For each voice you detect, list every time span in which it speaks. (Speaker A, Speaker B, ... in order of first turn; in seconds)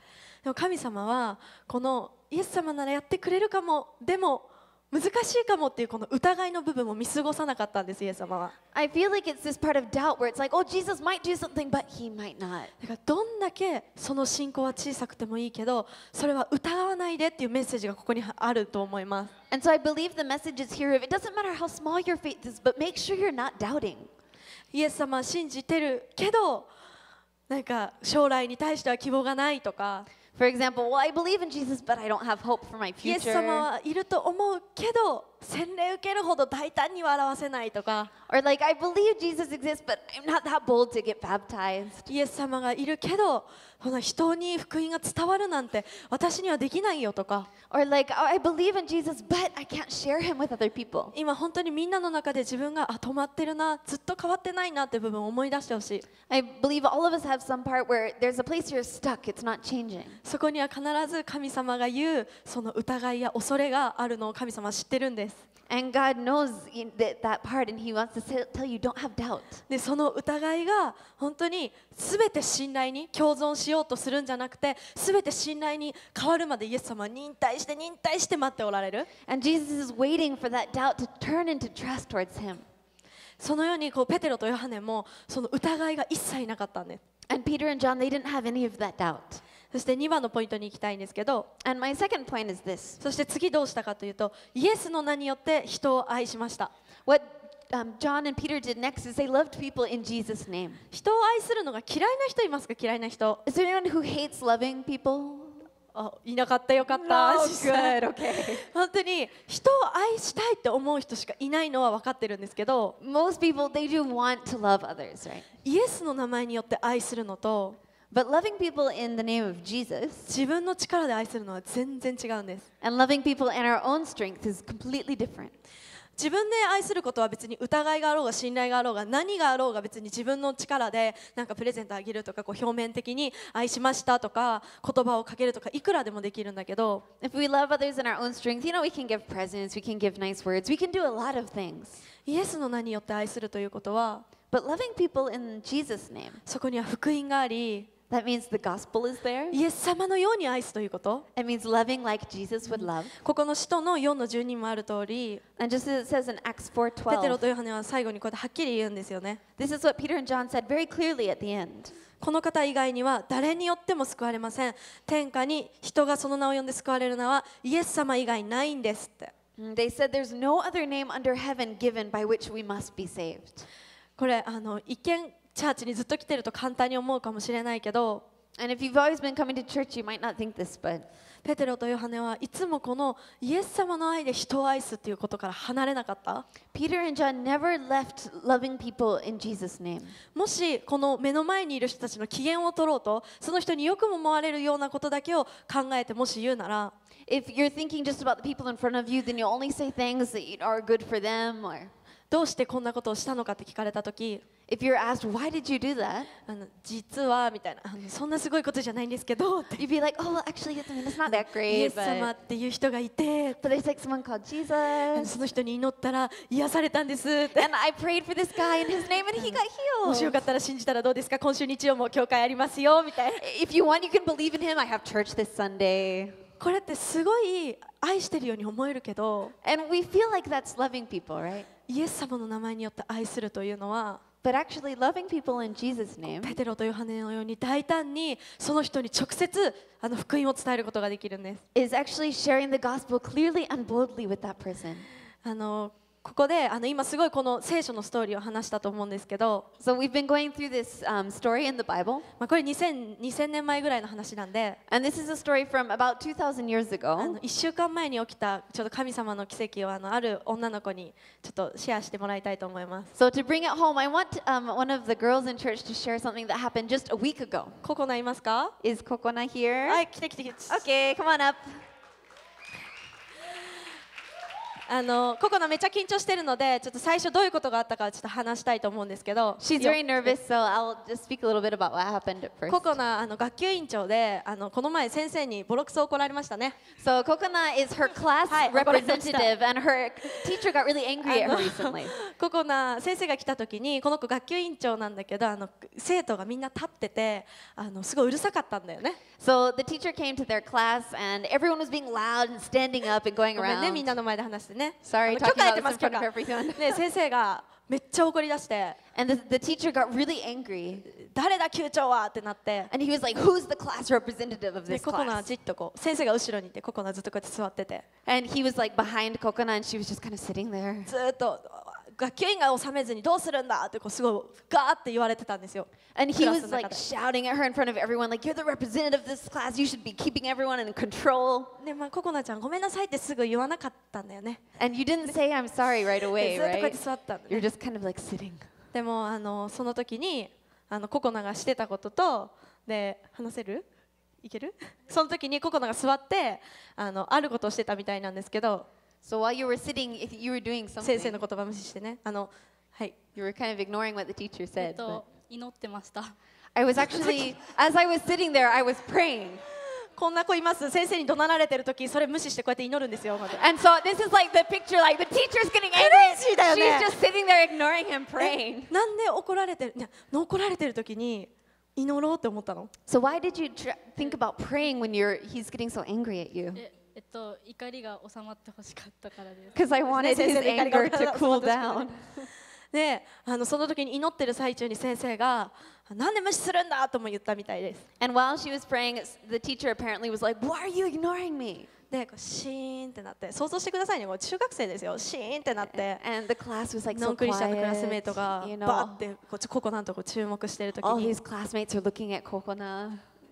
Speaker A: 0.4-8.5, 12.8-19.3, 24.7-26.7, 27.5-30.1, 33.0-38.1, 42.1-47.5, 51.1-56.1, 60.2-65.4, 69.7-79.1, 83.4-87.0, 89.7-91.5, 93.0-96.7, 100.9-103.4, 105.9-108.0, 108.6-113.0, 115.7-117.8, 120.3-122.7, 126.2-137.0, 142.3-144.2, 146.5-147.9, 149.5-151.3, 152.7-155.4, 157.1-159.4, 162.2-169.3, 174.2-178.2, 181.4-186.5, 190.3-196.9, 202.3-204.4, 206.5-209.8, 211.3-213.6, 215.2-217.7, 219.4-223.4, 226.6-229.5, 231.9-234.2, 236.4-241.6, 245.4-249.7, 252.4-254.8, 257.2-263.1, 267.8-268.7, 269.9-270.9, 274.9-280.4, 282.7-286.8, 288.5-289.5, 291.2-299.2, 303.6-309.0, 311.1-312.9, 314.9-318.1, 321.1-327.0, 331.8-334.6, 336.3-337.7, 338.9-343.8, 344.4-348.9, 351.0-353.1, 357.0-357.5, 360.1-363.6, 365.9-367.1, 368.4-372.9, 380.1-382.1, 382.9-388.0, 392.1-396.2, 397.1-401.4
Speaker B: 8.7-12.7, 19.5-24.1, 30.4-33.7, 38.3-42.1, 47.7-51.1, 56.3-60.2, 65.7-69.6, 79.3-82.7, 87.3-89.4, 91.6-93.0, 97.1-100.8, 103.5-105.6, 106.8-108.6, 113.0-115.5, 118.1-120.3, 122.8-125.6, 137.2-142.0, 144.5-146.4, 148.1-149.6, 151.3-153.1, 155.6-157.4, 159.6-161.9, 169.6-173.7, 178.6-181.1, 186.7-190.2, 197.3-201.9, 204.7-206.3, 209.8-212.3, 213.6-215.3, 217.6-220.4, 223.4-226.4, 229.6-231.7, 234.4-236.6, 241.8-245.1, 249.8-252.3, 254.9-257.4, 263.2-267.8, 268.8-270.0, 270.7-271.9, 279.6-283.0, 287.0-292.1, 299.4-304.1, 305.0-307.0, 309.1-311.1, 312.9-315.5, 318.3-321.1, 326.1-331.8, 334.8-338.7, 349.2-351.4, 353.4-355.2, 356.8-359.6, 363.5-368.9, 373.1-376.8, 379.7-382.2, 388.2-391.9, 395.8-399.2, 401.0-403.3
Speaker C: 354.8-356.4, 376.8-379.8